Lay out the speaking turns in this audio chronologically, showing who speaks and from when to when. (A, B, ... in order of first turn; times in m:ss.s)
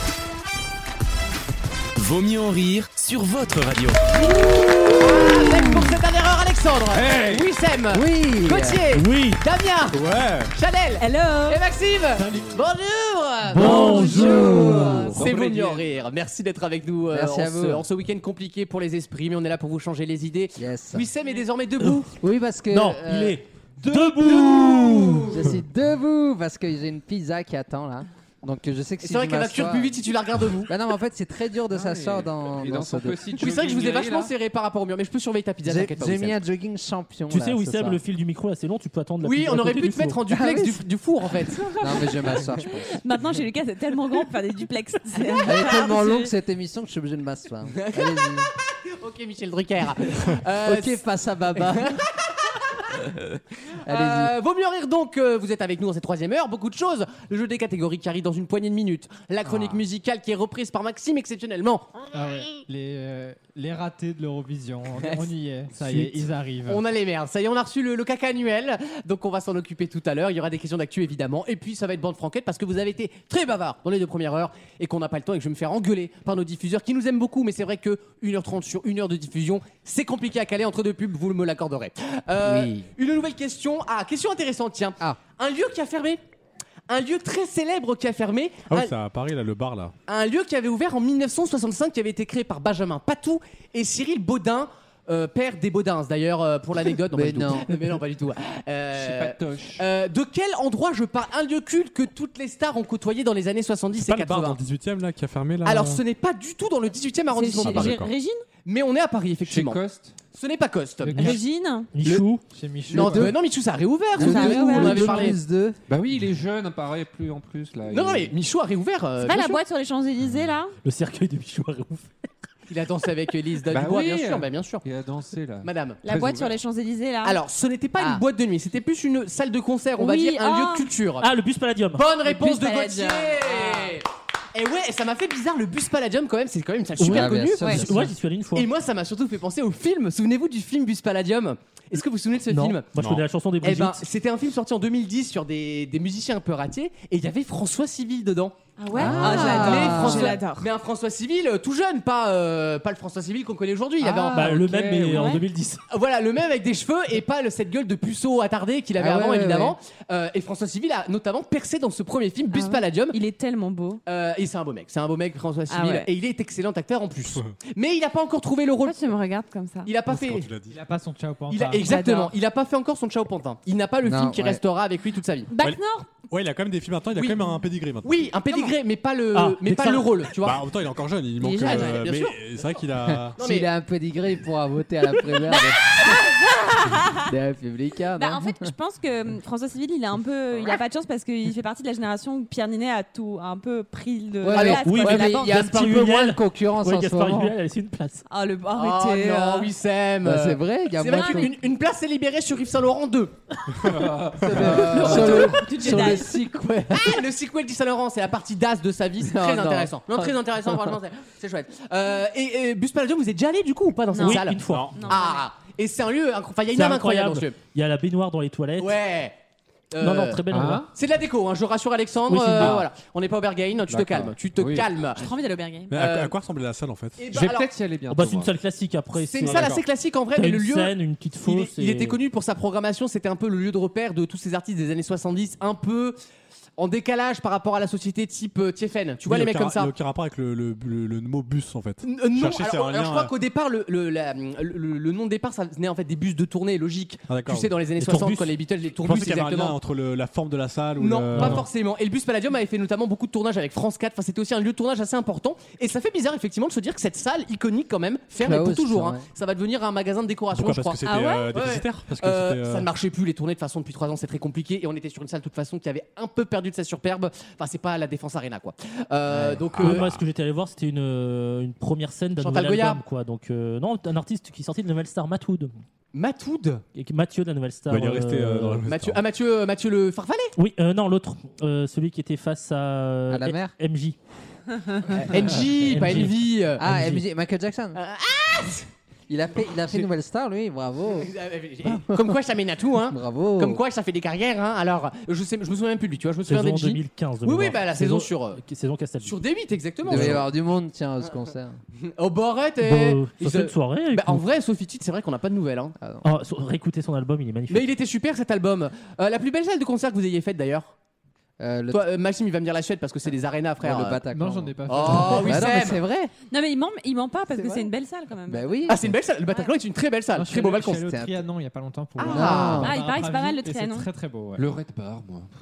0:02.0-0:04.1 A
0:05.0-0:10.0 B
0:06.9-0:07.5 C
0:07.9-0:08.8 D
0:08.9-0:09.4 E
0:09.9-0:10.5 F
0:10.5-0:22.1 B
0:11.0-0:11.6 G
0:13.5-0:15.2 E
0:13.6-0:15.3 D
0:15.2-0:15.9 C
0:17.1-0:17.9 D
0:20.6-0:21.1 D
0:22.2-0:23.4 D
0:22.7-0:25.3 E
0:24.0-0:25.5 B
0:25.3-0:30.0 D
0:29.0-0:30.7 B
0:30.7-0:33.3 D
0:31.7-0:34.3 C
0:33.4-0:36.4 B
0:35.6-0:38.0 D
0:37.3-0:40.2 E
0:39.2-0:42.1 B
0:40.3-0:40.8 D
0:41.8-0:42.9 D
0:42.7-0:46.3 G
0:45.2-0:45.8 B
0:45.4-0:48.5 D
0:47.8-0:51.0 B
0:50.6-0:52.0 D
0:51.6-0:52.3 B
0:53.8-0:54.3 D
0:53.9-1:02.0 B
1:02.1-1:06.8 H
1:05.8-1:26.2 B
1:22.4-1:22.9 D
1:26.9-1:28.9 B
1:28.7-1:29.9 F
1:30.1-1:44.6 B
1:37.1-1:37.9 D
1:39.0-1:39.8 C
1:43.9-1:46.0 F
1:45.6-1:48.1 B
1:47.3-1:48.4 G
1:47.6-1:48.1 F
1:48.6-1:49.8 B
1:49.5-1:50.2 C
1:50.3-1:51.4 B
1:51.0-1:51.4 H
1:51.1-1:52.4 E
1:51.2-1:51.9 G
1:52.2-1:53.4 H
1:52.9-1:53.4 D
1:52.9-1:55.4 B
1:54.2-1:55.8 D
1:54.2-1:55.3 G
1:55.9-1:58.4 C
1:57.9-1:59.6 B
1:59.2-2:00.7 G
2:00.8-2:02.3 E
2:02.7-2:04.8 B
2:03.7-2:06.5 C
2:05.6-2:06.0 B
2:06.0-2:07.4 G
2:07.2-2:11.3 B
2:08.0-2:08.2 D
2:10.0-2:10.9 G
2:11.2-2:12.0 E
2:12.0-2:22.9 B
2:12.2-2:14.0 G
2:17.0-2:18.7 E
2:17.0-2:17.8 D
2:22.5-2:24.0 E
2:23.0-2:23.2 F
2:23.6-2:34.6 B
2:28.8-2:30.7 G
2:28.9-2:30.4 D
2:34.0-2:34.6 G
2:34.3-2:35.8 E
2:34.6-2:35.3 C
2:35.1-2:35.4 G
2:35.9-2:43.2 B
2:39.0-2:39.8 D
2:42.5-2:44.0 G
2:44.1-2:49.0 B
2:45.7-2:46.1 G
2:48.8-2:49.9 G
2:49.8-2:50.5 B
2:50.1-2:50.8 F
2:50.6-2:51.9 H
2:51.5-2:55.5 B
2:51.8-2:52.3 G
2:54.0-2:54.6 D
2:55.5-2:56.3 G
2:55.6-2:58.2 F
2:57.2-2:57.4 B
2:58.0-3:00.6 B
2:59.3-3:00.1 E
3:00.3-3:03.4 F
3:01.4-3:02.2 G
3:01.6-3:02.4 B
3:03.4-3:03.7 B
3:03.4-3:05.9 D
3:05.4-3:07.3 G
3:07.2-3:08.7 D
3:08.2-3:15.6 G
3:14.4-3:17.5 D
3:14.6-3:18.2 E
3:18.3-3:19.7 G
3:18.7-3:23.3 B
3:20.2-3:21.6 D
3:21.1-3:21.6 G
3:23.8-3:25.5 C
3:24.4-3:27.2 D
3:24.5-3:26.2 B
3:24.9-3:26.3 G
3:26.9-3:37.6 B
3:29.2-3:31.0 D
3:34.1-3:34.4 G
3:34.2-3:34.9 E
3:34.6-3:35.0 F
3:34.9-3:35.5 G
3:36.7-3:39.0 E
3:38.8-3:39.4 B
3:39.9-3:45.3 B
3:40.0-3:40.8 E
3:40.5-3:40.9 C
3:42.3-3:42.8 E
3:42.6-3:42.9 C
3:43.9-3:44.9 C
3:45.1-3:46.0 G
3:45.9-3:47.2 F
3:46.0-3:46.3 B
3:47.2-3:47.7 B
3:47.3-3:48.5 C
3:48.1-3:52.2 E
3:49.2-3:56.2 B
3:56.8-3:59.9 B
3:59.2-4:03.3 F
4:02.0-4:09.8 B
4:07.3-4:07.7 F
4:08.0-4:08.5 E
4:09.0-4:11.7 F
4:11.0-4:21.0 B
4:11.3-4:11.7 E
4:18.4-4:19.3 D
4:20.5-4:22.9 F
4:21.0-4:21.5 G
4:21.5-4:30.1 B
4:29.5-4:30.1 F
4:29.8-4:35.8 E
4:32.4-4:33.0 B
4:36.1-4:36.8 B
4:37.0-4:38.9 E
4:37.9-4:39.2 F
4:38.9-4:40.5 B
4:40.6-4:44.2 E
4:43.3-4:43.7 D
4:45.2-4:46.8 B
4:45.8-4:47.2 E
4:46.8-4:48.0 D
4:48.0-4:48.9 B
4:49.3-4:51.3 D
4:51.2-4:58.6 B
4:51.8-4:52.4 D
4:53.1-4:53.8 D
4:56.5-4:59.4 E
4:59.2-5:00.5 B
5:00.1-5:01.8 D
5:02.1-5:06.0 B
5:02.8-5:04.4 E
5:06.0-5:06.2 D
5:06.2-5:07.9 E
5:07.7-5:10.9 B
5:11.6-5:12.0 D
5:11.9-5:14.2 B
5:13.8-5:16.3 D
5:14.3-5:15.6 H
5:14.9-5:16.0 B
5:16.5-5:18.8 G
5:17.6-5:17.9 B
5:18.5-5:19.1 D
5:18.9-5:21.1 B
5:20.4-5:24.6 H
5:21.0-5:21.4 D
5:22.2-5:22.9 B
5:22.2-5:23.0 D
5:22.2-5:24.1 G
5:24.6-5:25.5 C